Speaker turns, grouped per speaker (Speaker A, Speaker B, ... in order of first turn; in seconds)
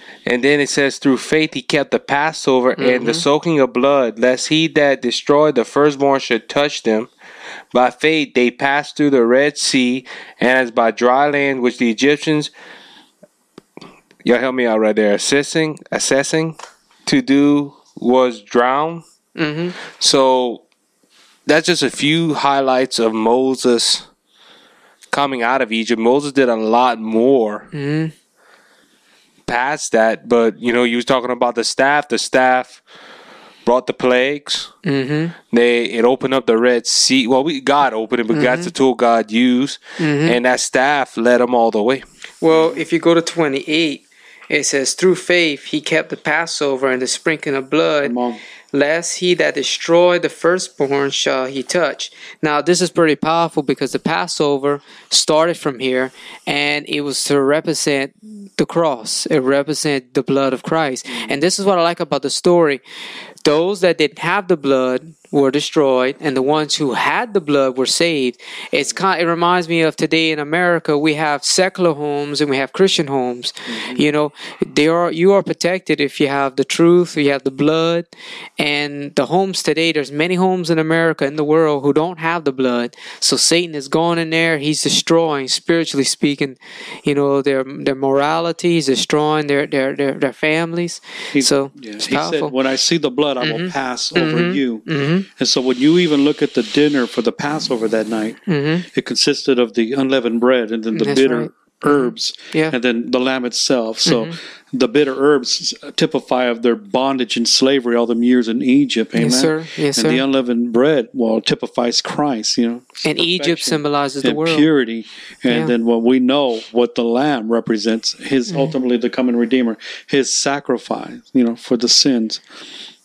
Speaker A: 0.3-7.1, 7.7-12.5, 14.2-16.6, 17.1-19.0, 19.9-20.6, 21.5-24.1, 25.1-27.7, 29.5-32.8, 33.7-34.7, 35.5-42.0
Speaker B: 2.8-3.3, 19.4-19.8, 27.7-28.1, 34.9-35.4, 38.3-38.7, 40.0-40.4, 42.4-48.2, 48.7-62.8, 63.5-78.1, 78.6-92.5, 93.4-95.3, 98.5-98.9, 100.9-102.7, 104.0-104.3, 109.2-110.2, 113.0-114.7
Speaker C: 42.5-42.8, 48.0-48.4, 61.1-61.4, 73.7-74.1, 91.3-122.4